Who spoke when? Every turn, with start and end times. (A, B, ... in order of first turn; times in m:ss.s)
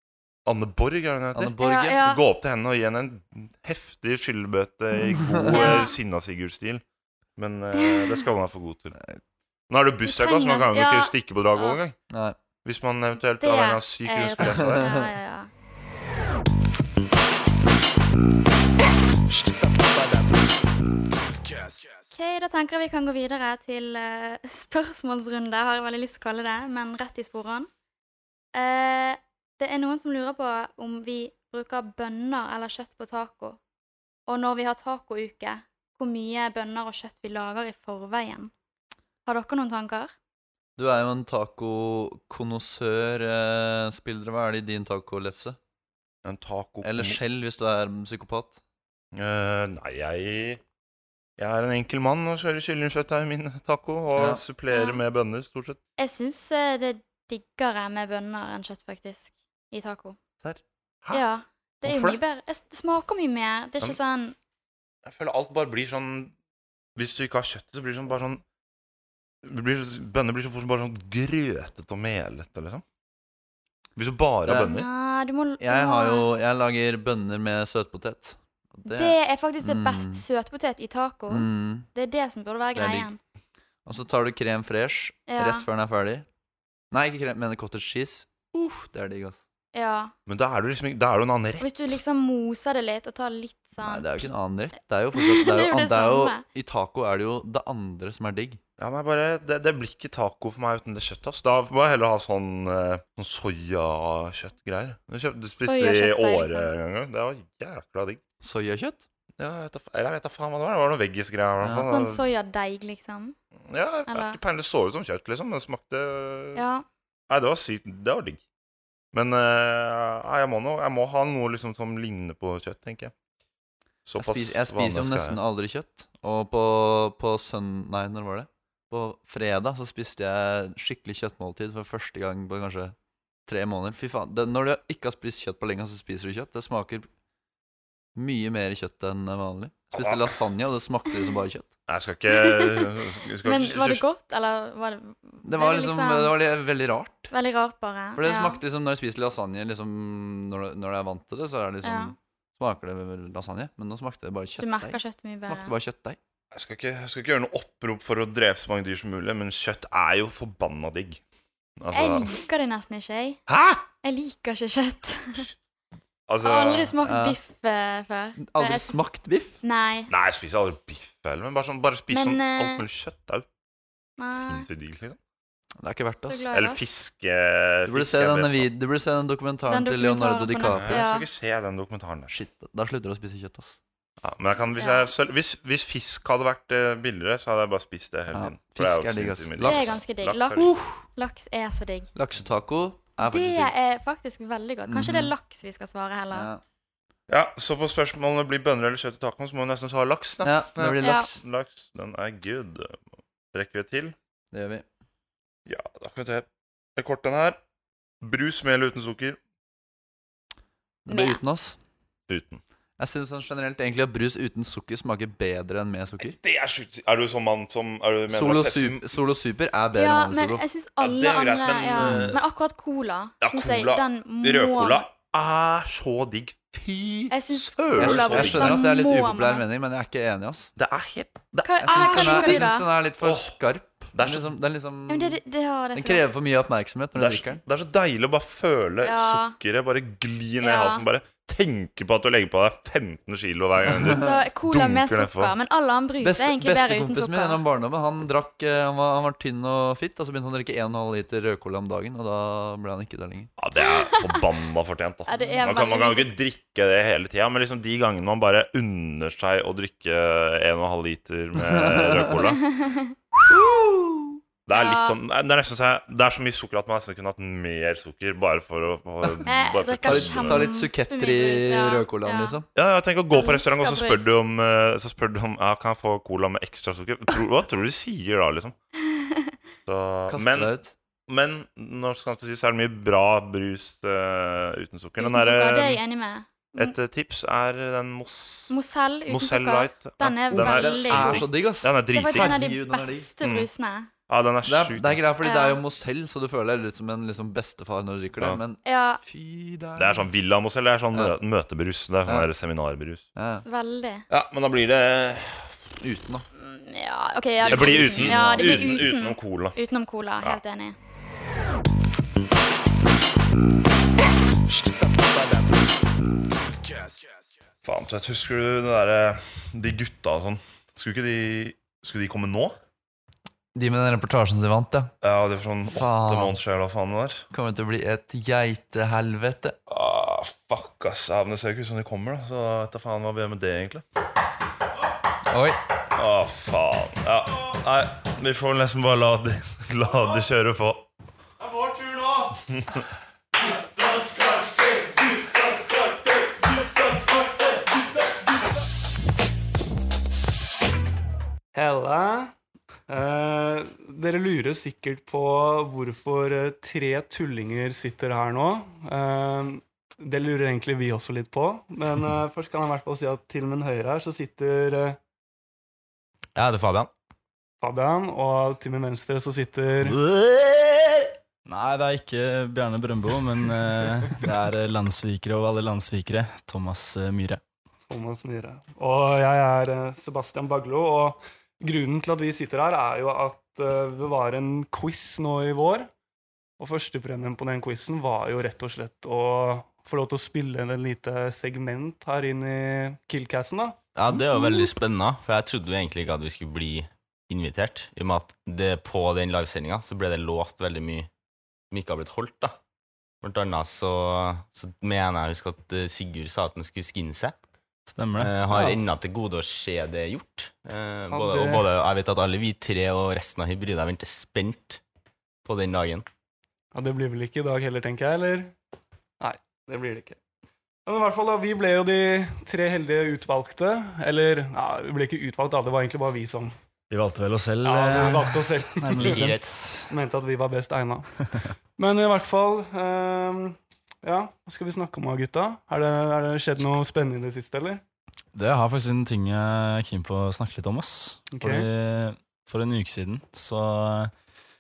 0:00.4-0:06.8 A
0:01.3-0:02.0 B
0:01.6-0:02.2 C
0:04.9-0:05.9 B
0:05.5-0:06.0 C
0:07.4-0:09.0 A
0:07.7-0:08.1 C
0:09.7-0:12.0 A
0:10.0-0:11.8 C
0:12.6-0:15.1 A
0:13.4-0:15.5 C
0:14.4-0:15.0 B
0:22.1-0:27.7 C
0:28.5-0:33.6 C
0:34.3-0:38.5 C
0:39.2-0:40.1 C
0:40.8-0:45.6 B
0:46.2-0:47.2 A
0:46.8-0:48.6 B
0:49.1-0:50.6 A
0:51.4-0:55.8 A
0:54.1-0:54.4 B
0:54.7-0:55.0 C
0:56.0-1:00.2 C
1:00.4-1:01.2 A
1:01.1-1:04.4 C
1:01.8-1:02.2 A
1:05.0-1:06.3 A
1:07.0-1:08.4 A
1:09.4-1:12.8 A
1:14.0-1:14.9 A
1:14.4-1:14.8 B
1:14.6-1:16.3 C
1:15.6-1:20.2 B
1:18.9-1:23.2 C
1:21.3-1:21.9 B
1:22.7-1:23.1 B
1:23.8-1:26.2 B
1:25.3-1:25.6 C
1:26.9-1:29.4 B
1:29.7-1:30.1 C
1:30.3-1:32.0 A
1:31.6-1:34.3 C
1:33.8-1:38.6 B
1:35.1-1:36.4 C
1:38.8-1:48.2 A
1:45.6-1:46.7 C
1:48.4-1:49.0 B
1:49.4-1:52.2 A
1:51.6-1:51.9 B
1:51.8-1:53.4 C
1:53.7-1:56.6 A
1:54.1-1:54.4 C
1:56.5-1:56.8 C
1:57.3-1:58.4 A
1:59.1-2:03.1 A
2:04.0-2:05.4 A
2:04.2-2:12.9 B
2:13.5-2:17.1 B
2:18.1-2:21.7 B
2:19.9-2:20.3 A
2:21.9-2:24.0 A
2:22.3-2:22.9 C
2:23.4-2:26.3 C
2:25.4-2:27.3 B
2:27.3-2:28.6 C
2:28.2-2:36.2 B
2:31.8-2:32.1 C
2:34.6-2:35.7 C
2:36.5-2:41.2 A
2:41.8-2:42.4 A
2:41.9-2:43.4 C
2:43.5-2:43.8 A
2:44.0-2:45.5 C
2:46.3-2:46.9 A
2:46.4-2:49.0 C
2:47.0-2:47.4 B
2:48.4-2:49.6 B
2:49.6-2:50.1 C
2:50.1-2:53.4 A
2:52.1-2:52.8 C
2:54.2-2:54.7 C
2:54.3-2:55.2 A
2:55.8-2:56.5 B
2:56.2-2:56.9 C
2:56.5-2:58.7 A
2:57.9-3:01.0 B
2:59.7-3:01.3 C
3:00.6-3:02.3 A
3:02.3-3:03.8 B
3:04.2-3:10.7 A
3:04.8-3:05.1 C
3:08.3-3:10.0 B
3:09.6-3:12.1 C
3:10.6-3:11.0 B
3:12.1-3:13.7 B
3:13.2-3:16.5 C
3:14.9-3:15.3 B
3:16.3-3:16.6 B
3:17.3-3:23.0 A
3:20.4-3:21.4 B
3:21.0-3:21.3 C
3:23.5-3:24.1 A
3:24.5-3:24.8 B
3:25.7-3:27.6 A
3:28.2-3:29.4 A
3:31.0-3:31.8 B
3:31.1-3:31.4 C
3:32.3-3:32.6 A
3:33.0-3:36.4 B
3:36.2-3:39.0 A
3:38.3-3:40.6 B
3:39.9-3:45.0 C
3:41.0-3:42.4 A
3:42.0-3:42.4 B
3:43.4-3:48.8 A
3:47.3-3:49.6 C
3:47.9-3:50.7 B
3:50.8-3:53.6 A
3:51.6-3:52.9 C
3:51.8-3:55.4 B
3:54.1-3:54.5 A
3:55.1-3:56.3 C
3:55.9-3:57.6 B
3:57.1-4:05.5 A
3:59.0-3:59.5 C
4:00.6-4:01.0 C
4:03.8-4:04.2 B
4:04.1-4:07.6 C
4:06.2-4:13.5 B
4:13.6-4:22.6 A
4:13.9-4:14.4 C
4:15.3-4:16.3 C
4:21.6-4:22.4 B
4:22.6-4:23.1 C
4:23.5-4:23.8 B
4:24.6-4:30.7 A
4:24.7-4:25.2 C
4:29.4-4:32.6 C
4:30.0-4:32.6 B
4:32.7-4:38.8 A
4:33.3-4:34.4 C
4:39.1-4:39.5 C
4:39.8-4:40.7 A
4:40.3-4:40.9 B
4:41.3-4:46.0 A
4:45.2-4:46.9 C
4:46.8-4:48.8 A
4:48.7-4:54.1 C
4:49.3-4:52.6 A
4:50.5-4:53.3 B
4:53.4-4:53.7 A
4:54.3-4:55.2 A
4:54.6-5:00.3 B
4:55.4-4:55.8 C
4:58.8-4:59.2 C
5:00.0-5:03.2 A
5:03.4-5:03.6 B
5:03.6-5:04.2 C
5:04.3-5:05.8 A
5:06.0-5:06.4 B
5:06.6-5:11.0 C
5:07.6-5:09.1 B
5:07.6-5:09.8 A
5:17.8-5:22.8 A
5:23.7-5:25.1 B
5:25.2-5:27.4 A
5:25.9-5:26.6 B
5:27.5-5:29.8 B
5:29.9-5:34.0 A
5:35.5-5:35.8 B
5:36.1-5:41.0 A
5:42.7-5:43.0 A
5:51.7-5:52.5 D
5:53.1-6:05.2 D
6:06.5-6:07.1 E
6:07.8-6:10.2 D
6:10.0-6:11.3 E
6:11.6-6:17.6 F
6:18.1-6:26.1 D
6:26.8-6:34.0 D
6:34.1-6:41.3 E
6:41.9-6:42.8 E
6:43.4-6:47.5 E
6:48.1-6:48.5 F
6:48.4-6:55.0 E
6:51.3-6:51.9 D
6:55.6-6:56.2 E
6:56.9-6:58.7 D
6:59.4-7:00.4 D
7:01.0-7:06.7 D
7:07.1-7:10.1 F
7:07.8-7:09.5 D
7:09.2-7:09.7 E
7:10.1-7:11.4 D
7:12.0-7:18.0 D
7:18.5-7:24.3 F
7:21.5-7:21.9 D